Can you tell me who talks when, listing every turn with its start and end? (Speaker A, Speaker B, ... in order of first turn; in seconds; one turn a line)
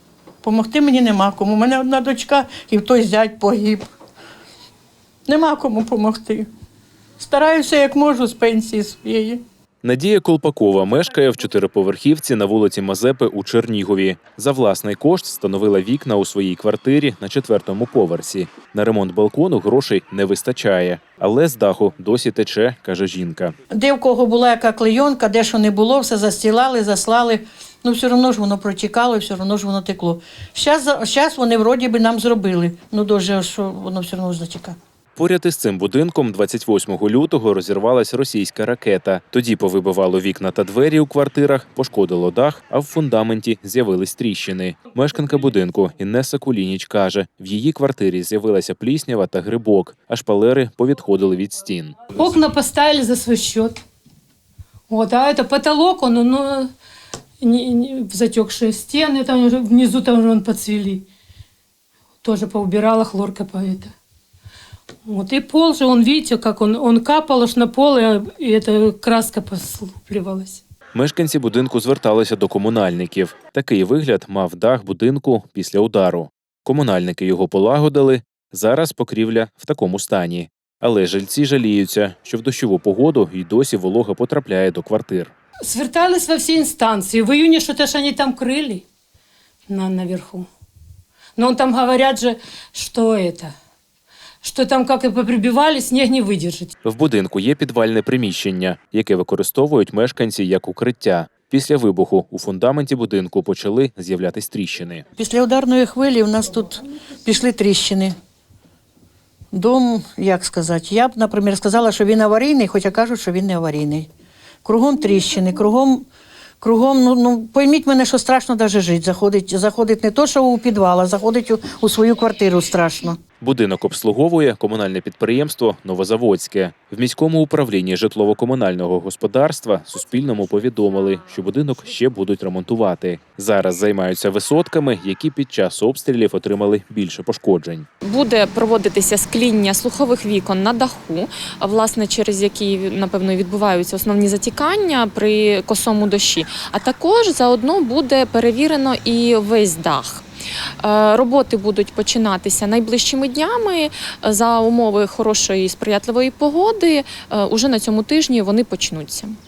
Speaker A: 0.4-3.9
Speaker A: 5.3-6.5
Speaker A: 7.2-9.4
Speaker B: 9.8-23.5
Speaker A: 23.7-34.8
Speaker B: 35.1-52.0
Speaker C: 52.1-53.8
Speaker C: 54.9-56.7
Speaker C: 57.4-61.1
Speaker C: 62.2-63.9
Speaker C: 65.0-70.6
Speaker B: 70.9-85.3
Speaker C: 85.6-88.8
Speaker C: 89.7-90.5
Speaker C: 91.3-93.5
Speaker C: 94.4-96.7
Speaker B: 96.8-105.0
Speaker A: 105.2-108.1
Speaker A: 109.5-114.1
Speaker A: 114.6-116.1
Speaker A: 116.6-123.2
Speaker B: 123.4-137.8
Speaker D: 138.1-150.2
Speaker D: 150.8-159.4